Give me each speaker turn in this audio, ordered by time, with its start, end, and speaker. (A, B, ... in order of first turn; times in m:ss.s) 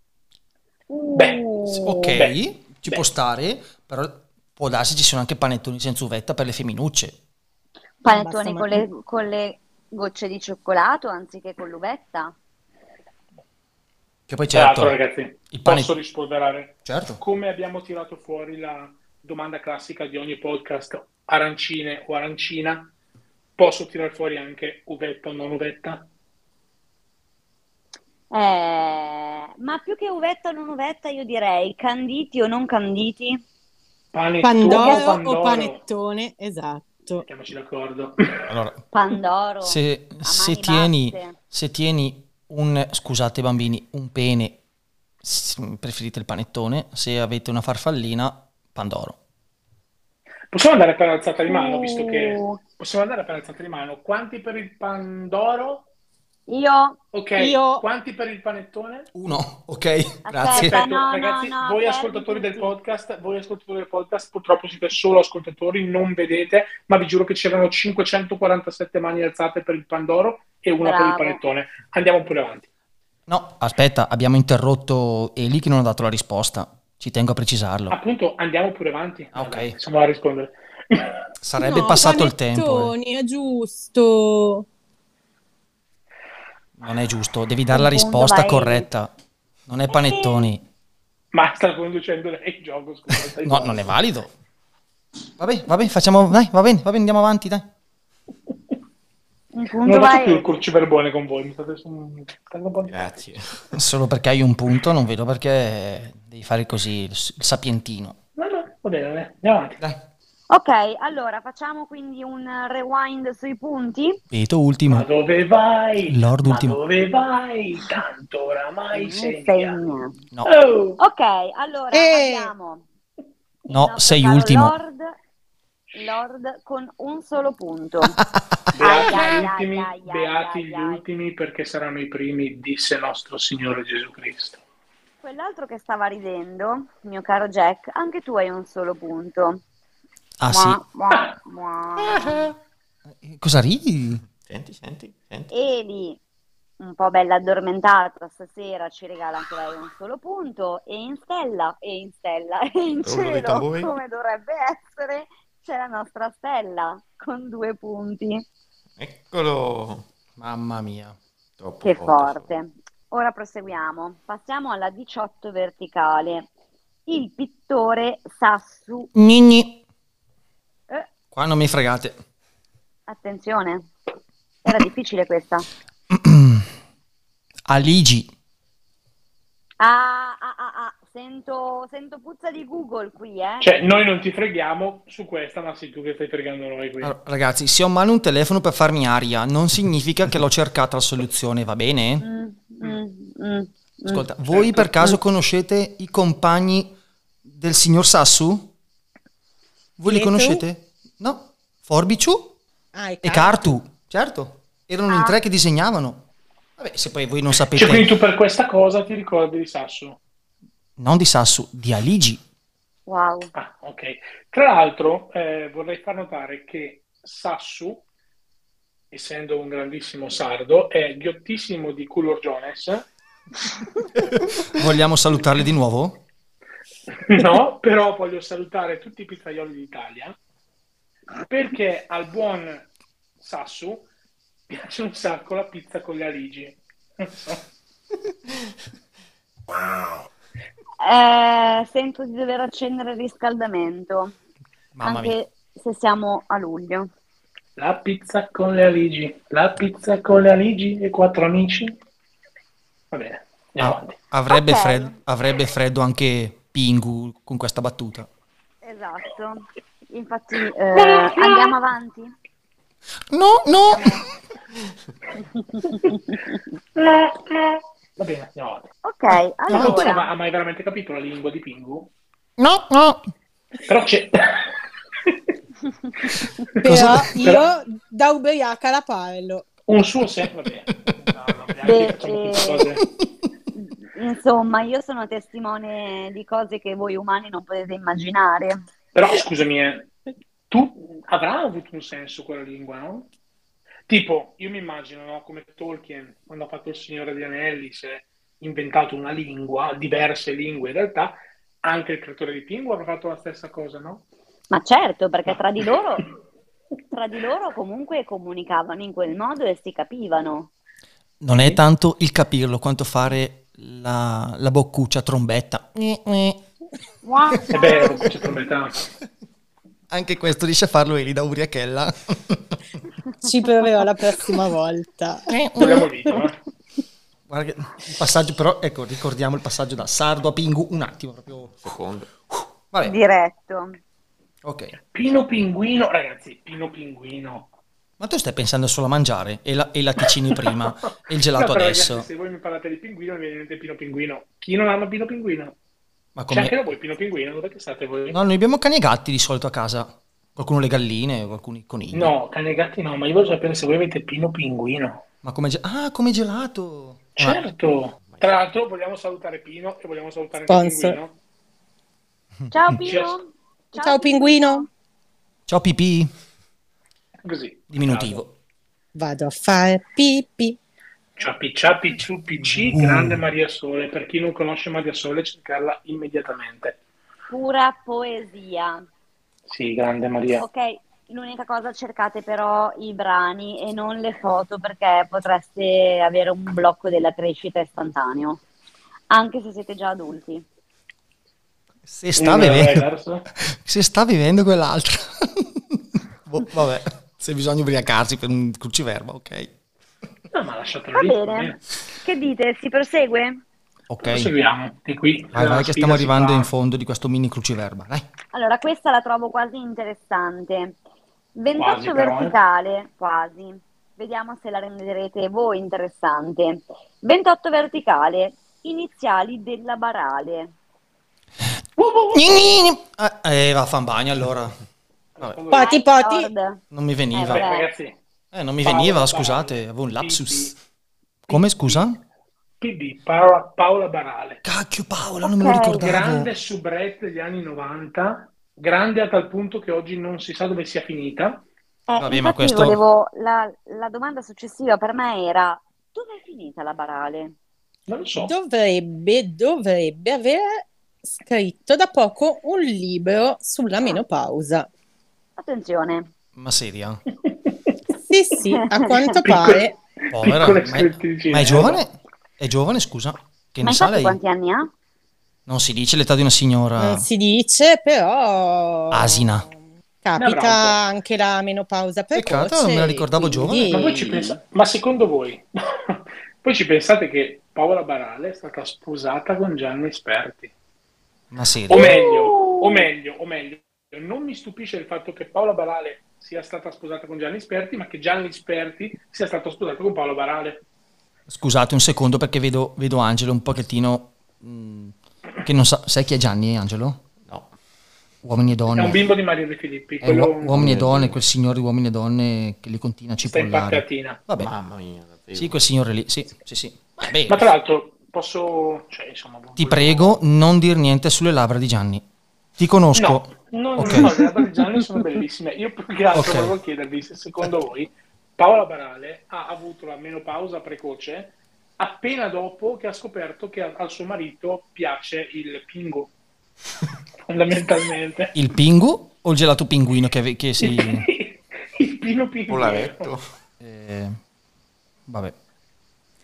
0:00.9-0:02.1 A
0:01.2-0:01.4 B
0:01.7-0:07.2 C
0:02.1-0:02.4 B
0:08.0-0:12.3 A
0:08.0-0:08.8 D
0:14.3-0:15.0 C
0:14.5-0:22.9 B
0:15.5-0:15.9 C
0:16.8-0:17.2 C
0:23.6-0:26.1 B
0:28.3-0:33.4 A
0:34.1-0:35.8 B
0:34.4-0:37.2 D
0:34.6-0:35.2 A
0:37.2-0:38.5 B
0:38.5-0:38.8 C
0:38.9-0:41.4 A
0:39.6-0:44.6 C
0:45.2-0:49.2 C
0:50.5-0:55.9 B
0:51.5-0:52.6 A
0:56.5-0:57.0 A
0:57.1-0:59.1 B
0:57.4-0:57.8 D
0:59.1-1:00.8 C
1:00.2-1:02.7 A
1:00.5-1:12.7 B
1:10.8-1:11.4 A
1:13.3-1:18.0 C
1:17.9-1:21.2 B
1:19.3-1:19.7 C
1:21.4-1:22.9 C
1:21.6-1:24.6 D
1:26.8-1:29.1 C
1:27.7-1:28.9 A
1:29.7-1:30.6 C
1:29.9-1:30.5 A
1:31.3-1:33.9 B
1:33.4-1:34.3 C
1:35.4-1:37.7 C
1:39.5-1:40.5 A
1:39.8-1:43.2 B
1:42.8-1:43.8 E
1:43.7-1:48.2 C
1:48.4-1:49.8 B
1:50.5-1:54.2 A
1:54.3-1:55.1 C
1:54.9-1:59.8 B
1:56.0-1:56.8 C
1:58.9-2:00.1 A
2:00.4-2:01.0 B
2:01.0-2:02.8 A
2:01.9-2:02.5 D
2:03.7-2:05.1 A
2:03.7-2:04.7 C
2:05.9-2:08.2 A
2:08.0-2:08.4 C
2:08.7-2:14.6 B
2:08.8-2:11.0 A
2:15.2-2:19.6 A
2:20.4-2:20.8 C
2:20.5-2:22.5 A
2:22.0-2:22.5 C
2:23.2-2:24.2 C
2:24.3-2:25.5 E
2:25.5-2:26.2 A
2:26.8-2:38.4 A
2:33.0-2:33.9 E
2:39.0-2:40.0 E
2:40.4-2:41.2 C
2:41.6-2:42.5 E
2:41.8-2:46.5 A
2:47.1-2:49.1 A
2:49.1-2:49.8 C
2:51.3-2:52.2 C
2:53.1-2:53.9 A
2:54.6-2:55.7 A
2:56.1-2:56.7 C
2:57.7-2:58.3 C
2:59.8-3:03.7 A
3:03.6-3:07.1 B
3:07.0-3:12.2 C
3:12.2-3:14.2 A
3:14.0-3:16.9 C
3:14.5-3:15.1 B
3:17.4-3:18.7 C
3:20.0-3:22.6 C
3:20.0-3:20.6 D
3:22.9-3:23.6 D
3:23.2-3:26.2 C
3:25.1-3:25.4 A
3:26.8-3:28.1 C
3:27.7-3:30.2 B
3:31.0-3:32.4 C
3:33.1-3:33.5 A
3:33.5-3:38.0 B
3:39.1-3:43.1 B
3:44.3-3:46.2 C
3:47.2-3:50.4 B
3:51.5-3:54.1 B
3:54.7-3:57.6 B
4:01.0-4:04.3 A
4:04.9-4:05.4 C
4:05.0-4:07.1 A
4:07.8-4:12.0 B
4:13.1-4:14.2 B
4:13.8-4:18.3 C
4:14.5-4:15.2 A
4:18.8-4:22.3 A
4:21.0-4:21.7 B
4:23.3-4:24.2 C
4:23.9-4:24.2 A
4:25.7-4:26.2 A
4:27.0-4:28.9 B
4:29.0-4:30.3 A
4:29.7-4:30.1 C
4:29.7-4:32.1 B
4:32.6-4:33.2 C
4:33.8-4:34.7 B
4:36.8-4:37.7 B
4:36.8-4:39.6 D
4:36.8-4:37.4 C
4:39.9-4:43.0 B
4:41.8-4:42.8 A
4:43.7-4:48.8 A
4:49.1-4:50.1 B
4:50.7-4:53.3 B
4:54.1-5:04.2 B
5:04.7-5:06.3 A
5:07.1-5:10.7 A
5:11.4-5:16.6 C
5:17.2-5:18.2 A
5:17.5-5:18.3 C
5:17.7-5:19.0 B
5:20.1-5:22.8 C
5:23.4-5:26.0 D
5:25.5-5:26.1 C
5:25.8-5:26.6 B
5:27.5-5:31.8 C
5:31.7-5:32.3 E
5:32.9-5:33.2 C
5:33.0-5:34.0 A
5:34.6-5:34.9 C
5:35.1-5:37.7 B
5:38.2-5:42.3 C
5:40.5-5:40.8 B
5:41.5-5:45.7 B
5:46.4-5:46.7 C
5:46.5-5:48.4 B
5:48.3-5:52.3 C
5:52.1-5:55.2 B
5:55.4-5:57.6 C
5:57.4-6:01.4 B
6:00.7-6:01.2 D
6:02.6-6:03.0 C
6:02.7-6:04.9 A
6:03.0-6:03.4 B
6:03.9-6:04.9 D
6:05.7-6:06.3 C
6:07.4-6:08.4 B
6:07.9-6:08.5 C
6:09.1-6:10.8 D
6:11.4-6:17.0 B
6:12.6-6:13.4 C
6:17.5-6:19.0 A
6:19.7-6:20.6 B
6:20.6-6:28.6 A
6:29.3-6:30.6 A
6:32.1-6:33.0 C
6:32.4-6:33.4 B
6:33.6-6:39.7 C
6:40.5-6:41.8 B
6:41.1-6:43.6 A
6:44.1-6:44.5 C
6:44.2-6:46.7 B
6:45.5-6:48.2 C
6:48.5-6:51.0 A
6:51.6-7:00.7 A
6:51.8-6:52.6 B
7:02.0-7:02.4 B
7:02.3-7:04.7 C
7:05.4-7:05.9 B
7:05.7-7:06.5 D
7:05.8-7:06.8 A
7:06.9-7:07.6 C
7:07.3-7:07.9 A
7:07.4-7:08.1 B
7:08.5-7:10.8 C
7:08.8-7:10.7 B
7:11.5-7:12.1 B
7:11.5-7:12.2 C
7:12.8-7:14.6 B
7:14.6-7:16.5 C
7:15.4-7:16.1 A
7:16.0-7:21.6 B
7:22.1-7:27.5 A
7:22.2-7:23.0 C
7:28.1-7:28.5 B
7:28.4-7:34.9 D
7:35.6-7:36.3 A
7:36.6-7:37.2 C
7:37.4-7:37.9 B
7:38.2-7:39.9 D
7:38.8-7:39.4 A
7:39.4-7:42.0 B
7:40.3-7:44.4 C
7:43.8-7:44.9 A
7:45.7-7:47.3 C
7:47.0-7:49.7 D
7:49.1-7:49.7 C
7:50.2-7:54.6 D
7:50.4-7:51.0 B
7:52.3-7:54.0 C
7:53.9-8:00.7 B
8:01.5-8:02.2 C
8:01.9-8:10.8 B
8:02.0-8:03.0 A
8:11.5-8:17.2 C
8:17.4-8:17.7 E
8:18.4-8:19.2 C
8:18.9-8:20.8 B
8:20.2-8:24.7 C
8:20.7-8:21.4 E
8:23.4-8:24.4 B
8:24.6-8:25.8 E
8:25.5-8:27.7 C
8:27.4-8:30.4 B
8:29.8-8:32.2 C
8:32.8-8:34.4 C
8:33.1-8:46.3 B
8:36.3-8:36.7 C
8:47.5-8:48.6 B
8:48.5-8:51.2 C
8:50.8-8:53.3 B
8:52.7-8:53.4 E
8:53.8-8:54.4 C
8:55.3-8:55.5 C